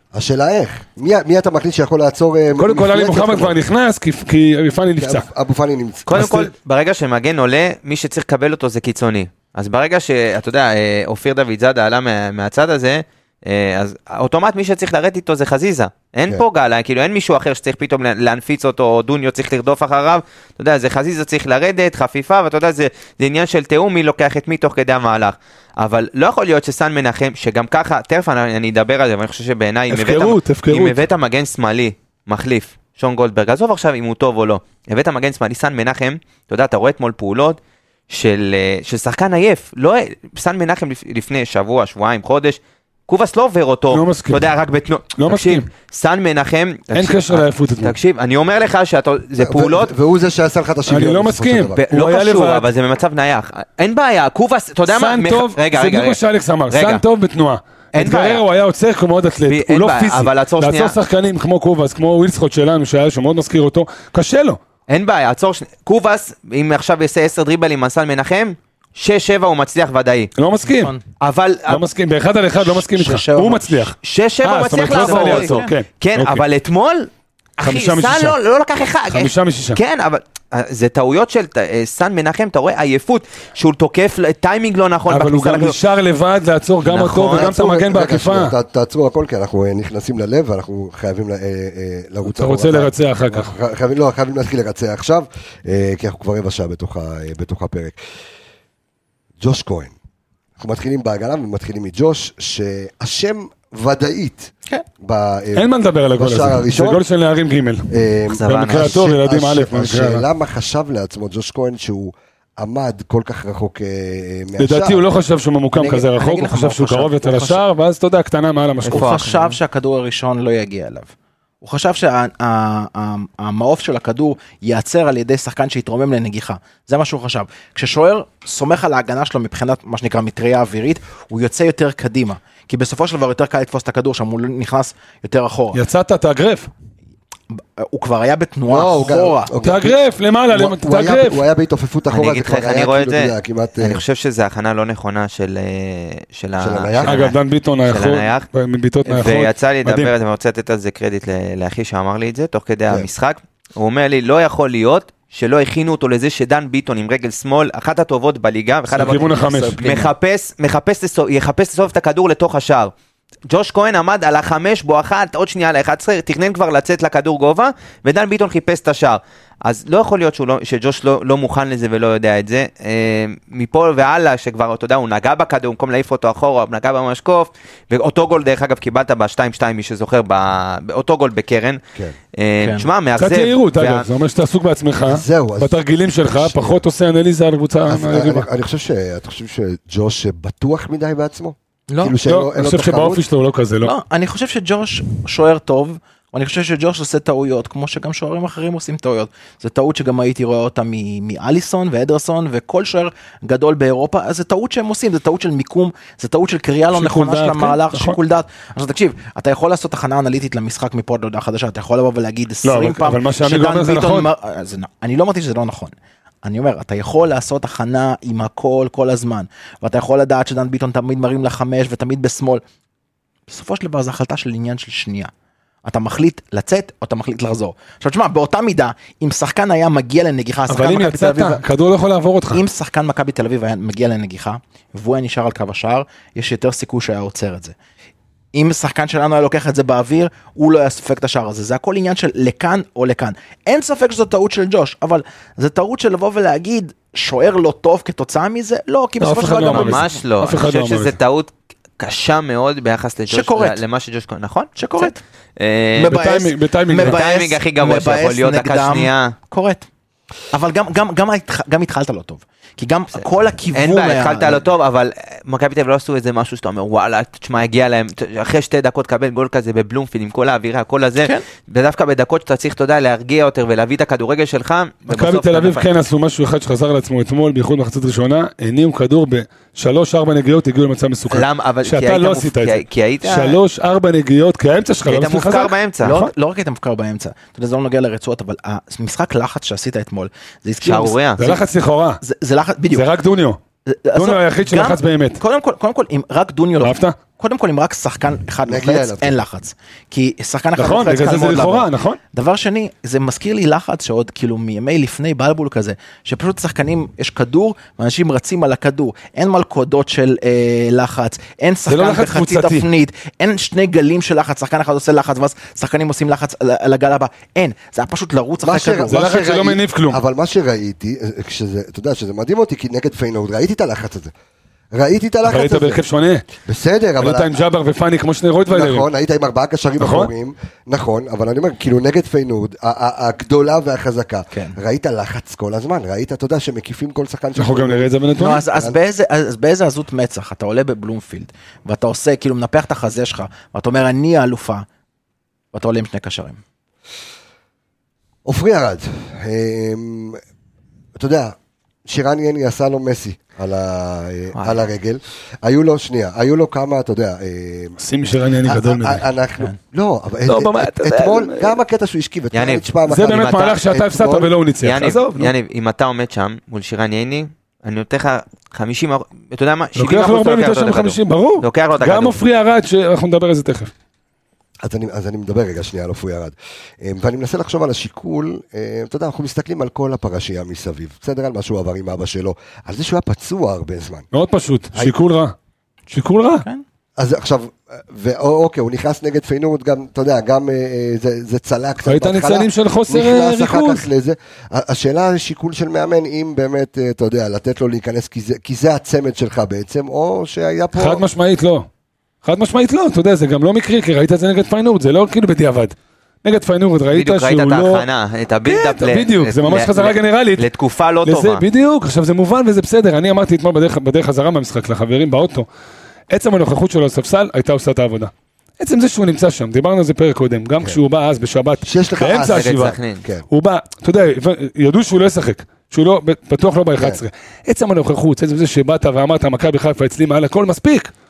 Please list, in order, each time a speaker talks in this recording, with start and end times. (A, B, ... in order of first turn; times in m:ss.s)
0:00.1-0:03.6 A
0:02.6-0:05.2 B
0:05.0-0:06.3 A
0:06.1-0:37.6 C
0:06.1-0:06.5 B
0:29.9-0:31.0 B
0:38.1-0:49.9 C
0:43.9-0:44.4 B
0:45.2-0:45.7 B
0:46.9-0:47.9 B
0:49.4-0:51.8 A
0:50.9-0:52.6 B
0:51.8-0:57.0 C
0:54.9-1:04.6 B
0:57.9-0:58.4 C
0:59.5-1:00.9 C
1:04.9-1:10.3 C
1:10.4-1:10.9 B
1:10.6-1:11.0 D
1:11.2-1:11.8 C
1:11.7-1:16.4 B
1:12.6-1:13.9 D
1:14.0-1:25.8 C
1:14.9-1:15.8 D
1:17.6-1:18.4 B
1:19.1-1:19.8 B
1:25.1-1:28.5 B
1:26.8-1:27.5 C
1:27.3-1:38.0 A
1:32.2-1:33.5 B
1:39.4-1:39.9 A
1:40.6-1:47.0 A
1:45.6-1:47.9 B
1:47.9-1:55.0 A
1:48.3-1:49.0 C
1:48.5-1:50.2 B
1:54.6-1:59.2 B
1:55.7-1:57.6 D
1:58.8-1:59.6 C
1:58.9-2:15.8 D
2:15.7-2:16.7 B
2:17.5-2:19.5 D
2:18.7-2:20.0 A
2:19.6-2:21.4 B
2:20.5-2:24.0 A
2:22.1-2:28.5 C
2:26.6-2:27.3 A
2:27.0-2:30.1 B
2:29.0-2:42.9 C
2:38.9-2:39.8 B
2:39.0-2:40.1 D
2:43.5-3:01.8 C
3:02.3-3:04.1 C
3:02.6-3:02.9 D
3:03.2-3:08.5 B
3:05.0-3:06.8 A
3:07.9-3:13.2 A
3:11.9-3:12.2 D
3:12.2-3:13.9 B
3:13.8-3:42.6 D
3:26.9-3:28.2 B
3:32.6-3:34.3 B
3:43.5-3:45.3 D
3:45.8-3:51.6 D
3:50.7-3:52.6 B
3:52.5-3:57.7 D
3:58.5-4:10.1 D
4:09.2-4:11.2 B
4:09.5-4:16.2 C
4:13.3-4:13.8 D
4:14.8-4:15.2 D
4:15.9-4:19.9 D
4:16.1-4:17.2 B
4:16.9-4:19.3 C
4:20.5-4:24.6 D
4:23.7-4:35.9 C
4:31.2-4:31.4 D
4:35.1-4:46.3 B
4:41.3-4:43.6 C
4:45.0-4:46.2 C
4:46.0-4:51.6 D
4:50.8-4:51.6 C
4:51.4-4:52.2 B
4:52.2-4:53.0 D
4:52.9-4:53.6 B
4:53.8-5:19.2 D
4:54.1-4:55.4 B
4:56.8-4:57.2 B
4:58.6-4:59.4 A
5:00.8-5:02.2 B
5:11.9-5:12.9 B
5:18.6-5:24.3 A
5:19.1-5:20.2 B
5:24.9-5:26.0 A
5:25.4-5:26.4 B
5:26.6-5:27.6 A
5:27.2-5:29.0 B
5:28.7-5:38.1 A
5:30.0-5:30.3 B
5:37.6-5:38.6 B
5:38.4-5:44.8 D
5:45.7-5:46.6 D
5:48.4-5:50.4 A
5:51.2-5:51.5 A
5:52.1-5:58.0 A
5:58.0-5:59.2 B
5:58.6-6:04.5 A
6:00.4-6:01.8 B
6:02.5-6:02.8 C
6:03.1-6:05.5 B
6:04.8-6:12.4 C
6:10.0-6:13.9 B
6:14.8-6:24.2 A
6:24.3-6:25.5 B
6:26.1-6:26.6 B
6:27.2-6:41.2 A
6:32.0-6:34.0 B
6:41.0-6:41.9 B
6:42.4-6:48.0 B
6:47.1-6:51.6 C
6:48.6-6:50.6 B
6:51.2-6:55.7 B
6:56.3-7:03.0 B
7:01.8-7:03.4 A
7:02.4-7:03.2 C
7:03.5-7:11.1 B
7:07.0-7:07.2 A